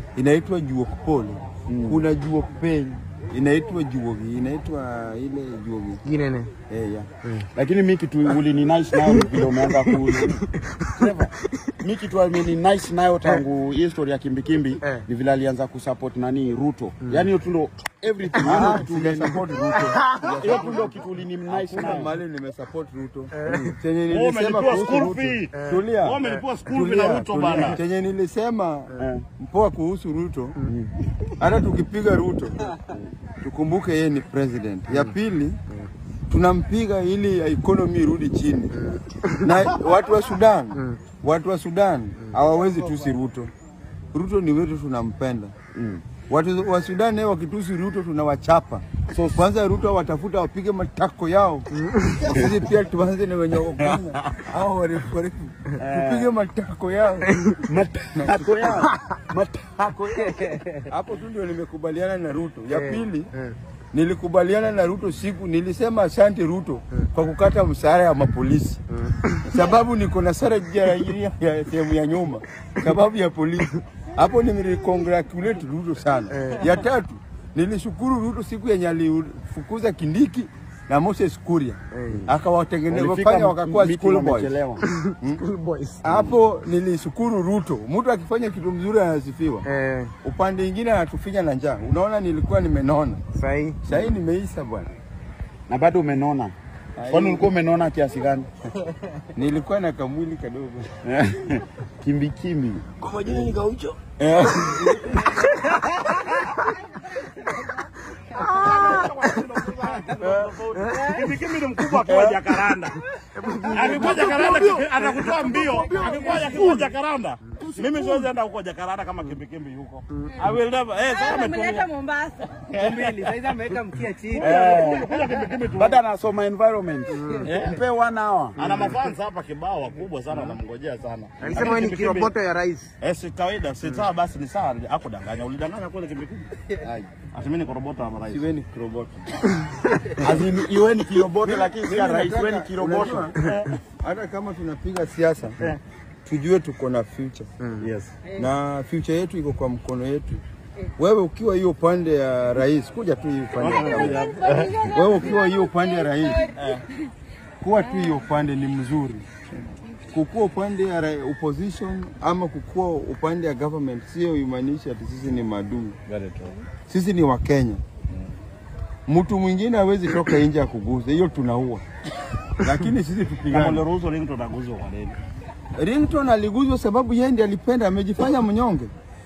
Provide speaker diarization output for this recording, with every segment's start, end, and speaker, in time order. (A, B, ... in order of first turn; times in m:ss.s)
0:00.2-0:06.0 A
0:01.7-0:02.0 B
0:06.0-0:06.5 C
0:06.7-0:07.1 A
0:07.5-0:19.4 B
0:10.5-0:10.9 C
0:18.3-0:18.7 C
0:18.4-0:20.9 A
0:19.7-0:20.7 C
0:20.4-0:22.1 B
0:21.5-0:30.6 A
0:23.3-0:23.7 C
0:24.1-0:27.8 D
0:25.5-0:26.4 C
0:29.0-0:29.2 B
0:30.7-0:30.9 B
0:31.4-0:32.7 A
0:33.4-0:35.6 A
0:36.3-0:38.8 A
0:38.7-0:39.5 C
0:39.4-0:43.5 A
0:40.7-0:41.0 C
0:44.1-0:45.5 A
0:45.7-0:46.0 B
0:46.3-0:51.7 A
0:49.1-0:49.4 B
0:51.8-0:52.3 C
0:52.2-0:57.3 A
0:53.8-0:54.2 B
0:55.8-0:56.3 B
0:57.6-1:00.5 B
0:58.2-0:58.4 A
1:00.3-1:00.6 C
1:00.9-1:03.3 A
1:02.7-1:03.6 C
1:03.9-1:08.8 A
1:08.9-1:09.6 C
1:09.4-1:24.5 A
1:16.3-1:16.7 C
1:21.9-1:22.2 C
1:22.9-1:24.8 B
1:24.8-1:26.3 C
1:26.0-1:29.6 A
1:29.6-1:30.1 C
1:30.2-1:33.2 A
1:33.3-1:33.8 C
1:33.8-1:34.9 A
1:35.7-1:36.5 B
1:37.0-1:37.5 A
1:37.1-1:38.5 B
1:39.3-1:40.9 A
1:41.0-1:42.8 B
1:43.0-1:44.0 C
1:44.2-1:45.4 B
1:44.6-1:45.4 C
1:46.0-1:46.5 D
1:48.3-1:53.0 D
1:48.3-1:49.5 C
1:50.2-1:50.5 B
1:50.7-1:51.3 C
1:52.0-1:52.4 B
1:53.3-1:54.5 C
1:53.7-2:01.9 D
1:53.8-1:56.8 B
1:55.4-1:56.7 C
1:56.1-1:56.5 E
2:01.2-2:04.4 E
2:02.5-2:03.3 D
2:02.7-2:04.5 C
2:04.4-2:05.2 B
2:04.4-2:06.0 D
2:05.7-2:08.6 B
2:07.1-2:07.5 C
2:07.4-2:07.8 D
2:08.6-2:12.3 D
2:08.6-2:08.9 C
2:11.4-2:12.9 C
2:13.0-2:16.5 D
2:16.8-2:17.1 A
2:17.3-2:18.4 D
2:18.2-2:19.5 A
2:20.2-2:23.3 B
2:21.4-2:23.4 A
2:23.4-2:23.7 D
2:23.9-2:25.6 A
2:26.2-2:27.5 A
2:27.6-2:27.9 C
2:27.8-2:28.2 D
2:28.4-2:30.4 A
2:31.0-2:36.5 A
2:33.6-2:34.8 D
2:34.2-2:36.5 E
2:36.6-2:36.8 D
2:37.6-2:46.0 A
2:46.1-2:46.6 D
2:46.9-2:47.8 A
2:49.0-2:51.8 A
2:52.6-2:53.8 A
2:53.5-2:55.2 D
2:55.7-2:58.9 A